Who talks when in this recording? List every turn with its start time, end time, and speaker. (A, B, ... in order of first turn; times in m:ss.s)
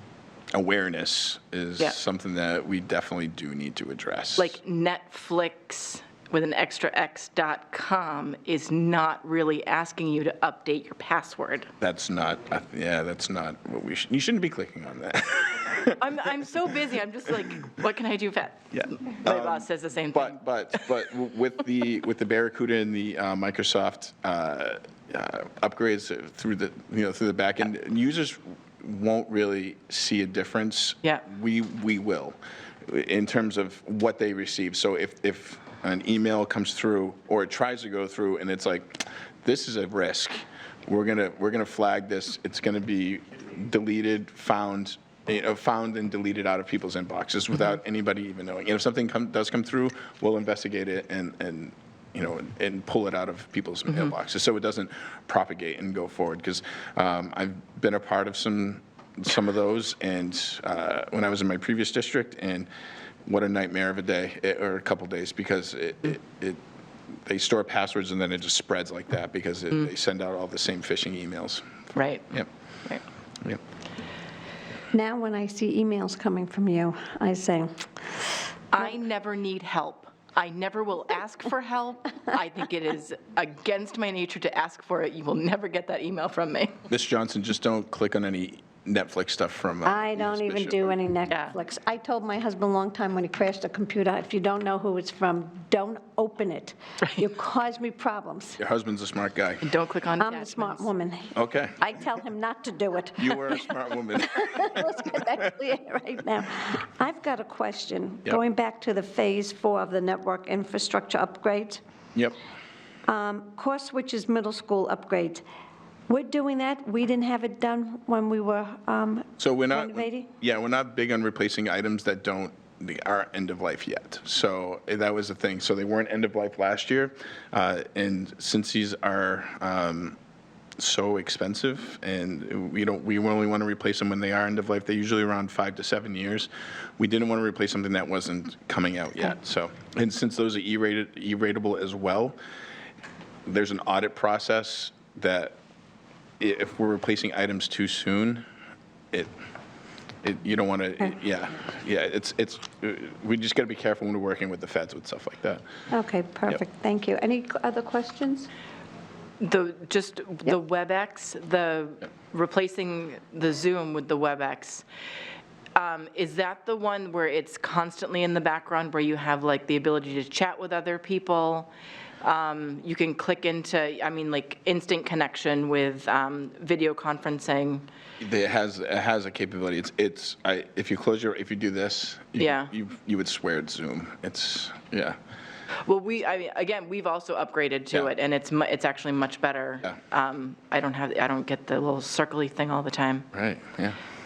0:00.5-0:04.6 A
0:04.4-0:11.7 B
0:11.8-0:16.0 A
0:16.0-0:20.9 B
0:18.7-1:02.7 A
1:03.2-1:06.6 A
1:07.2-1:11.8 A
1:11.9-1:12.3 B
1:14.9-1:17.9 C
1:18.7-1:26.8 B
1:26.9-1:30.9 A
1:29.8-1:38.6 C
1:31.3-1:31.5 B
1:38.6-1:39.7 A
1:39.6-1:40.9 B
1:40.2-1:51.8 C
1:41.3-1:41.9 A
1:43.2-1:45.4 A
1:53.1-1:55.4 C
1:56.1-2:00.3 C
1:59.4-2:10.2 A
2:10.8-2:22.4 A
2:23.4-2:25.6 A
2:26.4-2:28.4 A
2:30.2-2:35.6 A
2:35.9-2:38.5 C
2:39.4-2:44.8 B
2:45.7-2:51.7 B
2:52.2-2:57.8 B
2:58.2-3:05.2 A
3:02.4-3:02.7 B
3:05.9-3:13.3 B
3:13.3-3:14.0 A